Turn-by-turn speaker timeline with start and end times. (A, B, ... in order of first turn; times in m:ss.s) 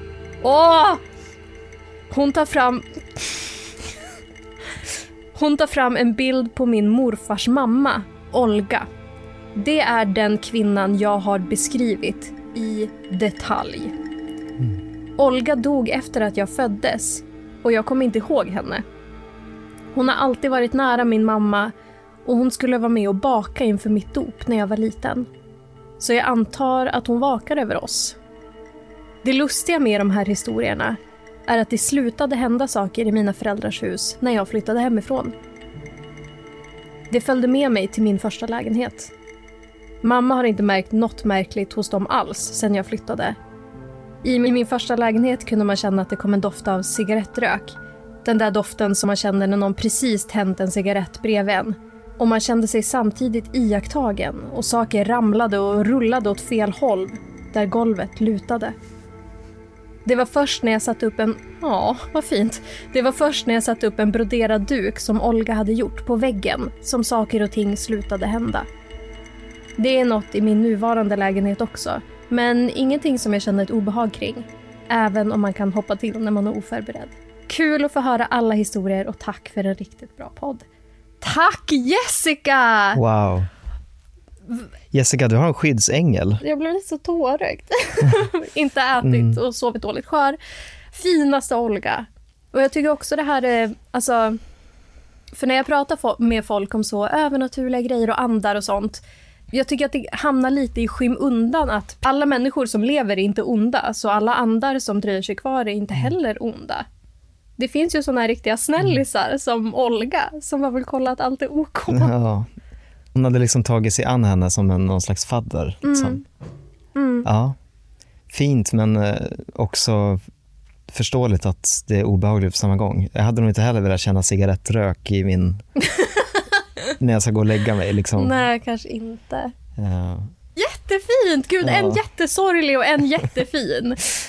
0:00.4-0:01.0 A
0:02.1-0:03.5 A
0:05.4-0:08.9 A
0:09.6-0:13.9 A
0:15.2-0:18.8 A
0:19.9-0:21.7 A
0:22.2-0:25.3 A
0:26.0-0:28.2 A
0:29.2-0:35.4 A
0:37.1-0:39.1 A
0:40.0-0:43.4 A
0:44.2-0:58.8 A
1:00.0-1:08.6 A
1:09.8-1:20.6 A
1:21.2-1:23.0 A
1:22.9-1:23.5 B
1:24.9-1:26.4 B
1:26.4-1:30.4 A
1:29.0-1:29.4 B
1:30.9-1:34.4 A
1:35.3-1:46.9 A
1:47.6-1:52.1 A
1:51.9-1:52.5 B
1:53.1-1:56.2 B
1:55.8-1:56.2 A
1:56.9-1:57.3 A
1:57.2-1:57.6 B
1:58.3-2:00.2 B
2:00.9-2:05.6 B
2:07.0-2:08.5 B
2:08.2-2:09.5 A
2:09.8-2:10.3 B
2:10.6-2:14.0 A
2:11.6-2:12.0 B